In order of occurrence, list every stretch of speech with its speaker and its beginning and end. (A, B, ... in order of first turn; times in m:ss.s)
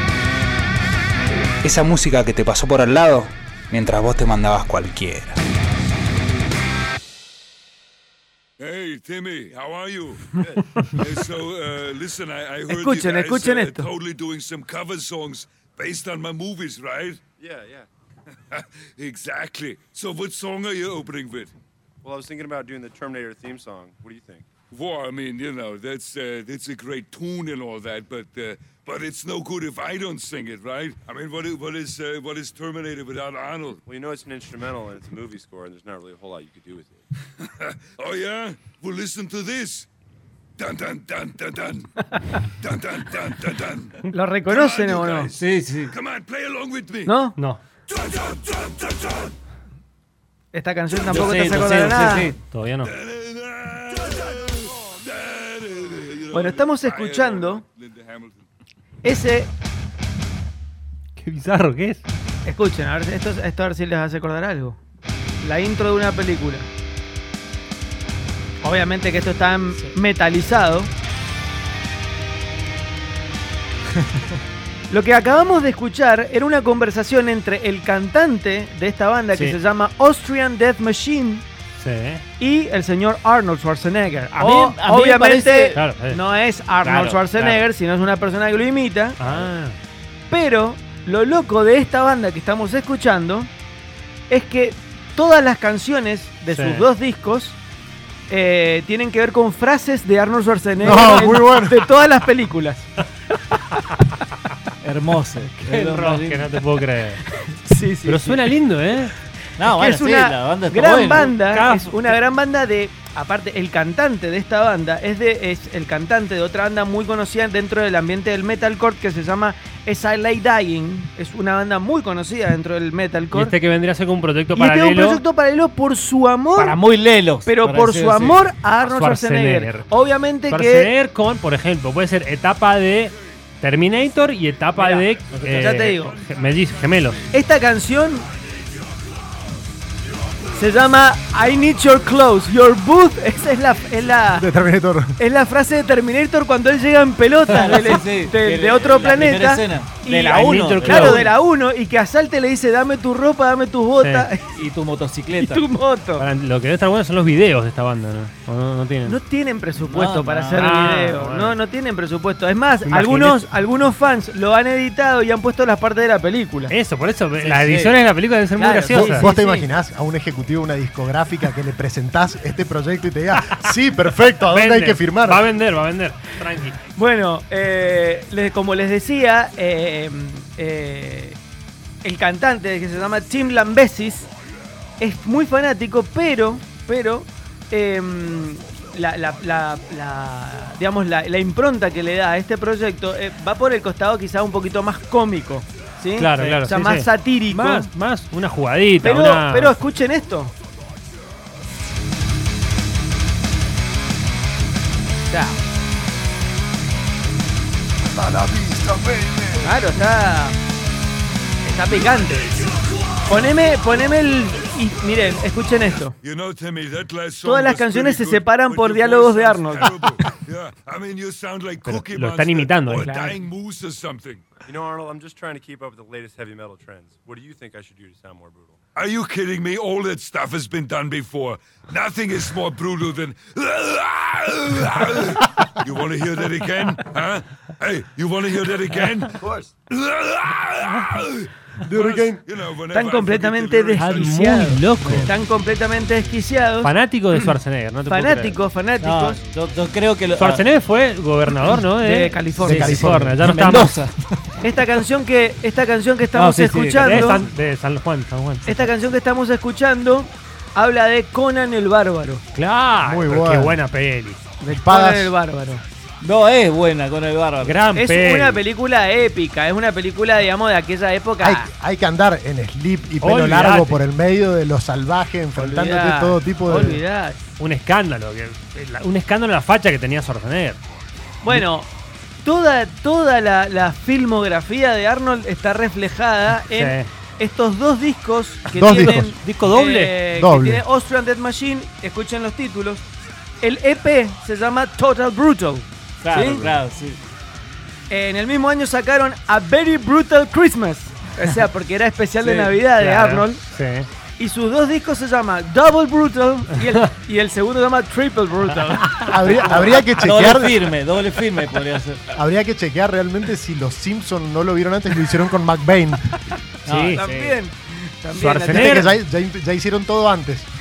0:01.6-0:05.4 A
0:08.6-0:17.2 B
0:10.4-0:10.7 C
0:12.7-0:13.9 D
0:17.4-0:17.9 C
0:18.5-0:21.5 B
0:22.0-0:24.5 C
0:24.7-0:33.8 B
0:33.8-0:37.0 C
0:37.6-0:39.9 B
0:40.6-0:41.9 B
0:42.6-0:47.2 B
0:44.1-0:45.3 D
0:45.4-0:45.9 E
0:47.1-0:47.4 D
0:47.3-0:47.6 F
0:47.9-0:49.1 B
0:50.5-0:52.3 D
0:51.1-0:52.4 E
0:52.5-0:52.9 F
0:52.8-0:58.4 B
0:56.3-0:57.6 D
0:59.0-0:59.5 D
1:01.2-1:02.0 F
1:02.5-1:04.8 D
1:05.4-1:06.7 D
1:08.6-1:10.9 D
1:14.9-1:21.4 D
1:19.3-1:19.6 F
1:21.8-1:22.2 F
1:22.4-1:29.2 D
1:24.3-1:25.8 E
1:25.8-1:26.2 F
1:26.8-1:27.6 E
1:29.2-1:29.8 F
1:29.2-1:29.5 E
1:30.3-1:33.5 D
1:34.3-1:37.6 D
1:36.5-1:36.9 F
1:38.3-1:42.9 D
1:40.8-1:41.8 G
1:44.8-1:46.6 E
1:45.6-1:47.2 F
1:47.5-1:48.5 D
1:48.0-1:49.1 F
1:49.6-1:51.3 E
1:49.6-2:03.5 D
1:51.1-1:52.1 F
2:03.3-2:05.2 F
2:04.5-2:06.8 D
2:06.6-2:08.4 E
2:07.5-2:10.9 D
2:08.8-2:09.9 F
2:10.5-2:17.2 F
2:14.8-2:16.2 D
2:17.3-2:18.3 D
2:20.5-2:24.5 D
2:24.4-2:25.2 G
2:25.2-2:34.5 D
2:27.5-2:31.3 E
2:30.2-2:31.2 F
2:34.0-2:34.3 F
2:34.5-2:35.7 E
2:35.4-2:36.2 D
2:36.2-2:39.2 F
2:39.0-2:46.7 D
2:39.8-2:40.8 E
2:40.6-2:41.6 F
2:42.8-2:43.4 F
2:46.7-2:49.3 F
2:47.4-2:48.0 E
2:48.6-2:49.7 D
2:49.0-2:55.5 G
2:54.5-2:56.8 F
2:57.0-3:01.4 D
3:02.0-3:04.3 D
3:05.0-3:17.9 D
3:16.2-3:19.8 F
3:16.4-3:16.7 E
3:19.0-3:20.5 D
3:25.3-3:25.6 D
3:28.2-3:29.4 B
3:29.6-3:30.6 D
3:31.6-3:32.5 D
3:33.3-3:36.2 D
3:36.2-3:44.4 B
3:37.4-3:40.0 D
3:41.8-3:43.1 F
3:42.9-3:43.4 D
3:44.6-3:48.8 C
3:49.0-3:59.4 B
3:59.4-3:59.7 C
3:59.9-4:04.5 B
4:01.8-4:02.4 G
4:02.9-4:06.9 D
4:04.0-4:05.3 F
4:06.8-4:08.6 F
4:08.1-4:09.4 D
4:09.0-4:10.6 E
4:10.3-4:12.5 F
4:11.9-4:13.3 D
4:12.6-4:14.4 E
4:12.6-4:13.3 G
4:13.1-4:14.0 F
4:14.6-4:17.5 D
4:16.4-4:17.3 E
4:17.0-4:18.9 F
4:18.7-4:22.4 D
4:22.6-4:24.4 F
4:23.0-4:23.8 G
4:24.6-4:25.8 D
4:24.7-4:25.3 G
4:26.2-4:27.8 E
4:27.6-4:28.6 F
4:27.9-4:31.7 D
4:31.4-4:37.0 G
4:33.2-4:34.0 F
4:35.6-4:37.4 D
4:37.6-4:40.8 F
4:41.4-4:41.9 D
4:42.4-4:53.0 D
4:46.7-4:47.1 F
4:48.7-4:50.2 F
4:48.8-4:49.3 G
4:50.3-4:50.8 G
4:53.6-4:56.7 D
4:56.2-4:57.2 E
4:58.1-5:03.6 D
5:02.4-5:02.8 E
5:03.0-5:04.1 F
5:04.4-5:09.7 D
5:09.2-5:10.9 G
5:09.6-5:12.2 E
5:12.3-5:16.3 G
5:16.8-5:17.3 E
5:16.9-5:17.5 F
5:17.1-5:19.1 D
5:18.3-5:19.1 F
5:18.7-5:20.7 G